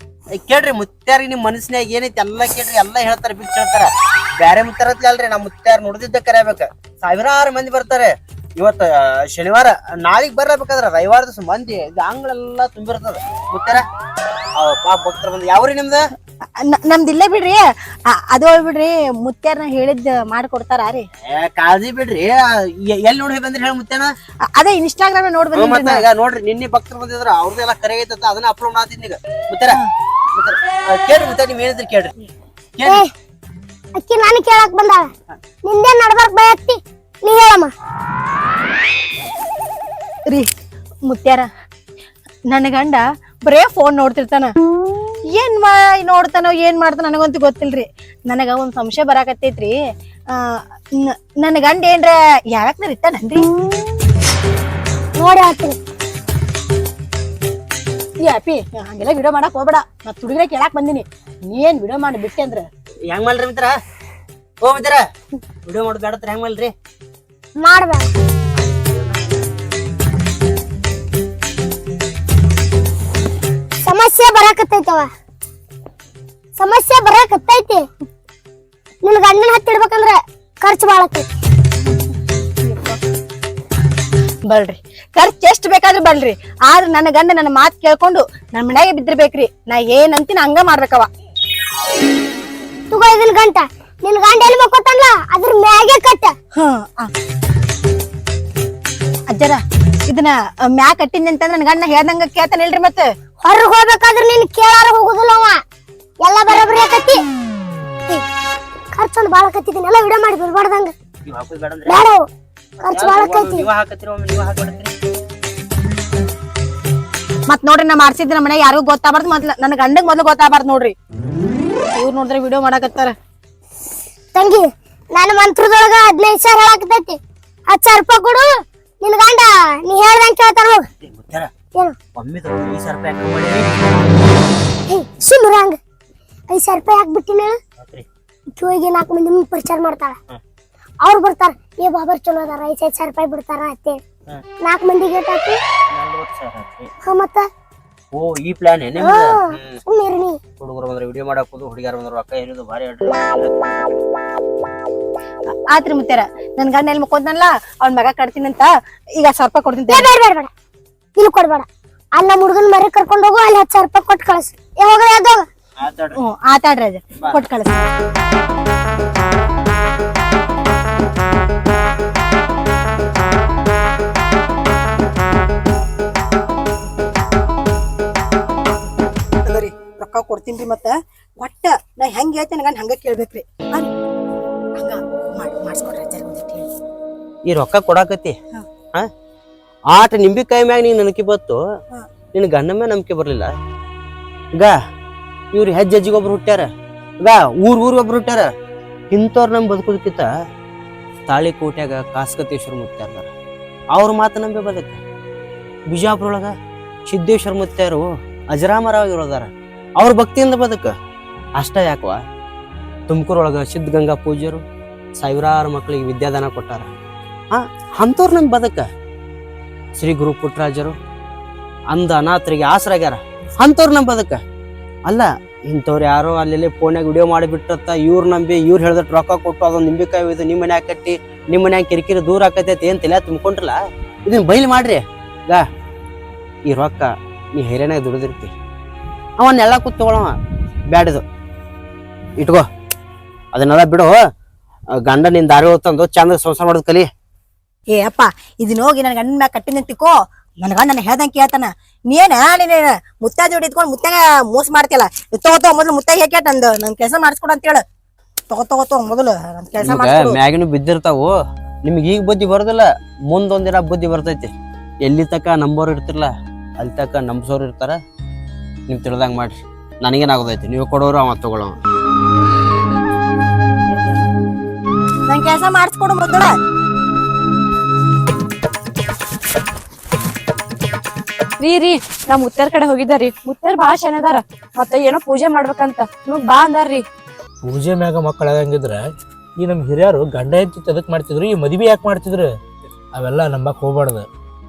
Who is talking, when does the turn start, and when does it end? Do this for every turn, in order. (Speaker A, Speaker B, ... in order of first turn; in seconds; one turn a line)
Speaker A: 0.4-13.8
Speaker A: 14.6-16.0
Speaker B: 16.6-21.0
Speaker A: 21.3-24.1
Speaker B: 24.5-26.1
Speaker A: 25.5-29.8
Speaker A: 30.4-32.1
Speaker C: 34.0-35.1
Speaker C: 35.6-37.7
Speaker B: 41.0-41.5
Speaker B: 42.5-44.5
Speaker B: 45.3-49.7
Speaker B: 50.3-53.5
Speaker C: 55.2-55.8
Speaker B: 58.2-62.6
Speaker A: 63.1-63.7
Speaker A: 64.6-65.0
Speaker A: 65.6-66.7
Speaker C: 67.6-68.1
Speaker C: 73.8-75.1
Speaker C: 76.6-77.8
Speaker C: 79.0-81.2
Speaker B: 82.6-83.0
Speaker B: 84.5-91.1
Speaker C: 92.9-96.3
Speaker B: 96.5-97.1
Speaker B: 99.3-103.1
Speaker C: 103.4-105.6
Speaker C: 106.2-107.2
Speaker C: 108.9-110.9
Speaker A: 111.3-112.0
Speaker C: 111.9-112.3
Speaker C: 112.8-113.7
Speaker A: 112.8-114.9
Speaker B: 117.5-120.9
Speaker B: 121.9-123.1
Speaker C: 124.3-128.5
Speaker C: 129.0-130.8
Speaker A: 131.0-131.5
Speaker A: 132.1-133.7
Speaker C: 134.9-135.8
Speaker C: 136.5-137.5
Speaker C: 138.5-140.2
Speaker C: 141.0-144.0
Speaker C: 144.6-145.6
Speaker A: 145.9-146.9
Speaker C: 147.0-147.4
Speaker A: 148.1-149.8
Speaker C: 149.0-150.4
Speaker A: 150.6-153.8
Speaker B: 155.7-160.1
Speaker C: 159.9-160.5
Speaker C: 161.2-161.7
Speaker C: 162.2-165.4
Speaker A: 165.8-166.2
Speaker B: 166.1-167.8
Speaker B: 179.4-183.9
Speaker B: 184.8-186.7
Speaker A: 187.5-188.3
Speaker A: 189.9-191.6
Speaker A: 192.3-193.5
Speaker A: 195.5-196.7
Speaker A: 197.2-198.5
Speaker A: 199.1-200.2
Speaker A: 201.3-203.3
Speaker A: 203.9-205.0
Speaker A: 205.9-206.5
Speaker A: 207.1-210.9
Speaker A: 211.6-212.2
Speaker A: 213.1-214.6
Speaker A: 215.2-216.9
Speaker A: 217.5-218.9
Speaker A: 220.0-220.9
Speaker A: 221.9-224.4
Speaker A: 225.1-233.8
Speaker A: 234.3-235.6
Speaker A: 236.7-238.5
Speaker A: 239.4-240.3
Speaker A: 240.9-241.2
Speaker A: 242.4-242.6
Speaker A: 243.5-244.1
Speaker A: 245.1-247.1
Speaker B: 247.9-257.8
Speaker B: 258.5-260.4
Speaker A: 259.8-261.3
Speaker A: 261.9-264.5
Speaker A: 265.0-268.0
Speaker A: 268.9-271.8
Speaker B: 275.3-276.5
Speaker D: 281.6-287.0
Speaker E: 287.6-289.0
Speaker E: 289.6-292.5
Speaker E: 293.1-294.2